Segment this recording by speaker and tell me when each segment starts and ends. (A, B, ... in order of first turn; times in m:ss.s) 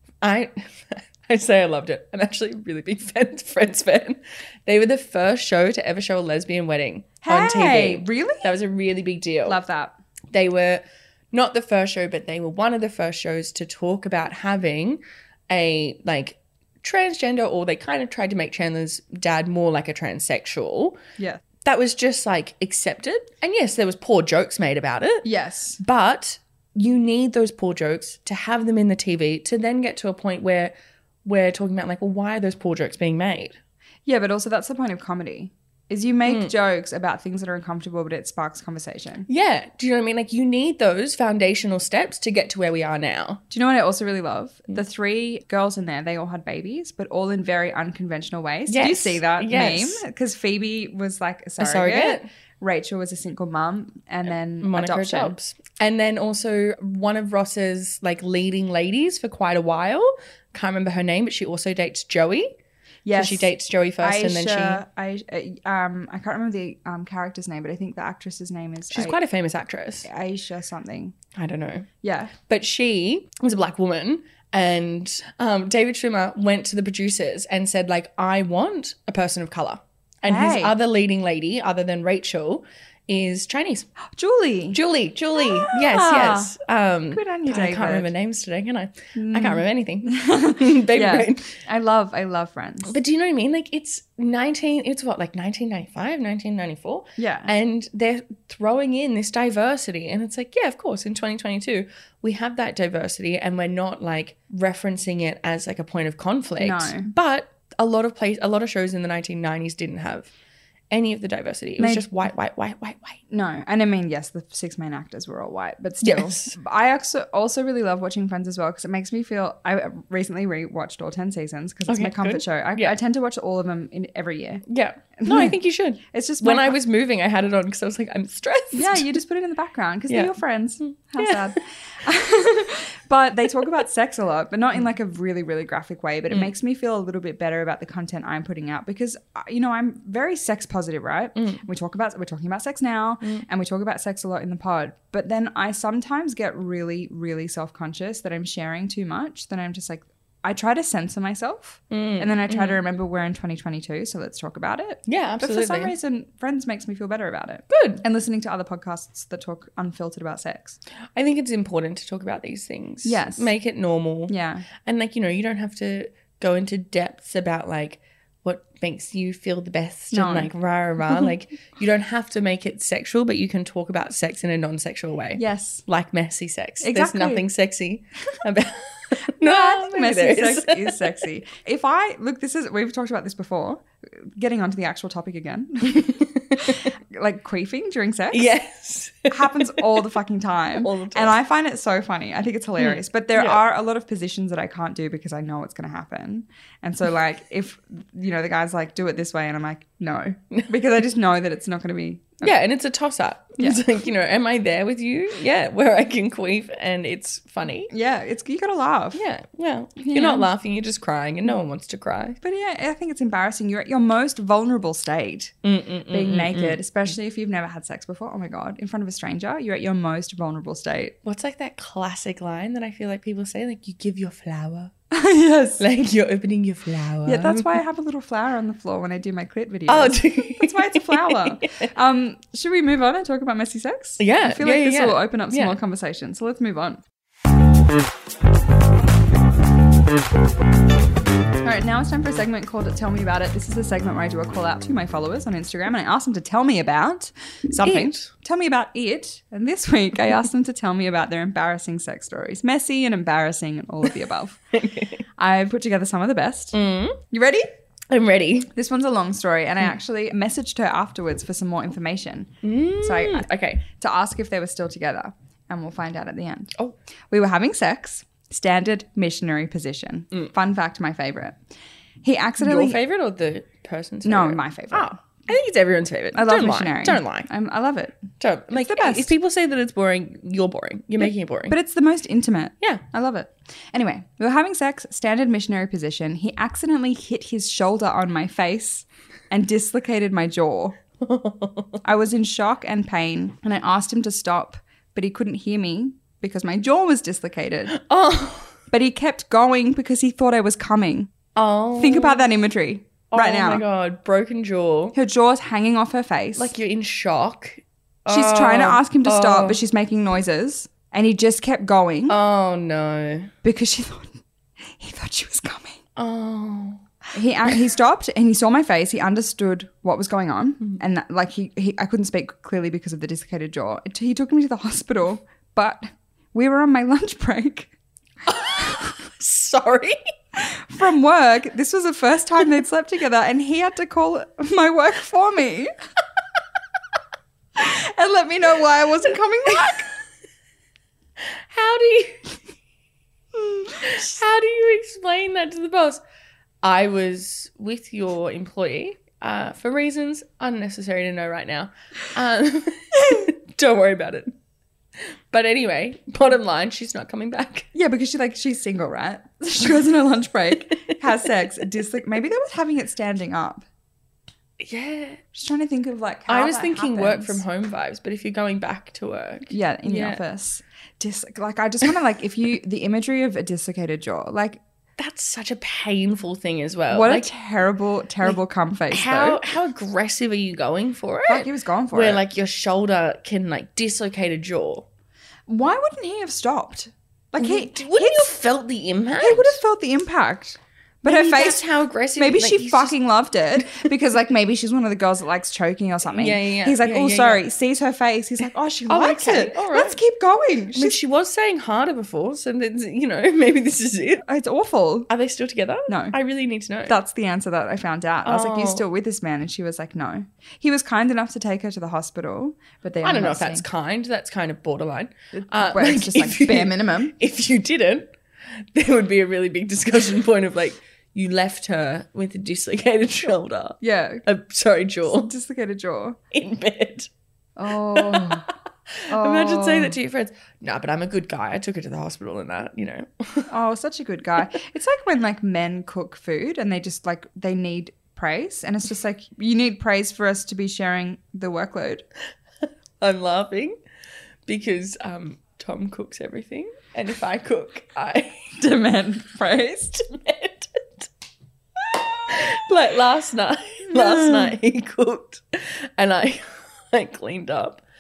0:00.2-0:09.6 A
0:07.2-0:08.5 B
0:09.4-0:09.9 B
0:10.3-0:21.0 A
0:21.6-0:25.2 A
0:25.2-0:25.8 B
0:25.8-0:30.7 A
0:31.2-0:33.6 A
0:34.0-0:39.3 B
0:36.2-0:36.5 A
0:39.3-0:43.4 A
0:43.5-0:55.3 B
0:48.7-0:50.0 A
0:51.6-0:52.3 A
0:54.6-1:02.6 A
1:03.0-1:09.2 B
1:03.1-1:04.8 A
1:08.9-1:10.1 A
1:10.0-1:11.2 B
1:11.3-1:23.9 A
1:12.0-1:12.3 B
1:20.2-1:20.7 B
1:24.1-1:24.8 B
1:24.7-1:31.6 A
1:25.4-1:26.5 B
1:27.1-1:28.1 B
1:29.1-1:33.0 B
1:32.8-1:50.3 A
1:37.2-1:37.5 B
1:46.6-1:47.1 B
1:50.9-1:53.2 A
1:51.8-1:52.1 B
1:53.3-2:04.6 B
1:56.0-1:56.6 A
2:01.9-2:03.0 A
2:04.7-2:09.2 A
2:05.2-2:05.6 B
2:06.1-2:06.8 B
2:08.7-2:40.8 B
2:10.1-2:11.5 A
2:21.4-2:21.6 A
2:31.9-2:32.8 A
2:35.0-2:35.9 A
2:37.7-2:38.0 A
2:41.1-3:01.1 A
2:43.0-2:43.5 B
2:44.3-2:44.7 B
2:50.1-2:50.5 B
2:55.4-2:55.8 B
2:56.8-2:57.4 B
2:59.4-3:08.5 B
3:05.9-3:06.9 A
3:08.3-3:10.0 A
3:09.3-3:22.5 B
3:10.8-3:11.4 A
3:12.8-3:13.6 A
3:22.4-3:27.9 A
3:27.9-3:29.2 B
3:29.1-3:32.4 A
3:30.0-3:30.5 B
3:32.4-3:35.5 B
3:35.6-3:36.8 A
3:36.1-3:41.2 B
3:41.2-3:44.9 A
3:45.1-3:45.8 B
3:45.8-3:47.8 A
3:47.2-3:57.0 B
3:49.9-3:51.9 A
3:54.2-3:55.8 A
4:01.6-4:14.6 B
4:07.7-4:08.3 A
4:14.7-4:15.2 A
4:15.4-4:16.8 B
4:16.7-4:17.2 A
4:17.3-4:17.6 B
4:18.1-4:18.7 A
4:18.7-4:26.8 B
4:22.6-4:23.8 A
4:27.3-4:31.6 B
4:32.2-4:33.0 B
4:32.6-4:37.5 A
4:34.2-4:35.2 B
4:36.3-4:39.3 B
4:38.4-4:41.8 A
4:41.2-4:51.0 B
4:51.2-4:52.0 A
4:52.0-4:58.0 B
4:57.9-4:58.8 A
4:58.9-5:01.3 B
5:01.5-5:02.5 A
5:02.0-5:03.8 B
5:03.3-5:05.2 A
5:05.1-5:06.7 B
5:06.6-5:09.8 A
5:08.3-5:12.4 B
5:12.3-5:13.5 A
5:13.6-5:14.4 B
5:14.9-5:16.0 B
5:16.2-5:17.0 A
5:17.3-5:27.9 B
5:28.4-5:30.2 A
5:30.6-5:35.9 B
5:37.8-5:40.1 B
5:39.7-5:40.0 A
5:41.4-5:42.6 A
5:43.9-5:46.2 A
5:46.8-5:54.5 A
5:55.5-5:57.9 A
5:57.9-6:03.8 B
6:04.8-6:05.4 A
6:05.5-6:07.6 B
6:06.5-6:10.4 A
6:09.7-6:14.8 B
6:15.2-6:17.5 A
6:17.1-6:19.6 B
6:19.1-6:25.1 A
6:21.5-6:22.4 B
6:25.7-6:28.5 B
6:27.6-6:29.8 A
6:29.4-6:31.8 B
6:31.2-6:33.2 A
6:32.4-6:41.2 B
6:36.2-6:37.6 A
6:39.1-6:40.2 A
6:40.9-6:44.4 A
6:44.4-6:45.3 B
6:45.3-6:47.2 A
6:46.1-6:46.4 B
6:47.1-6:53.8 B
6:48.4-6:49.0 A
6:53.2-7:05.5 A
6:55.5-6:57.3 B
7:04.0-7:04.4 B
7:05.2-7:06.4 B
7:06.5-7:07.3 A
7:07.8-7:08.7 B
7:08.1-7:13.7 A
7:09.3-7:10.2 B
7:13.7-7:22.2 B
7:23.2-7:23.9 A
7:24.6-7:28.7 A
7:28.8-7:30.2 B
7:30.2-7:31.3 A
7:32.1-7:38.0 A
7:34.1-7:34.7 B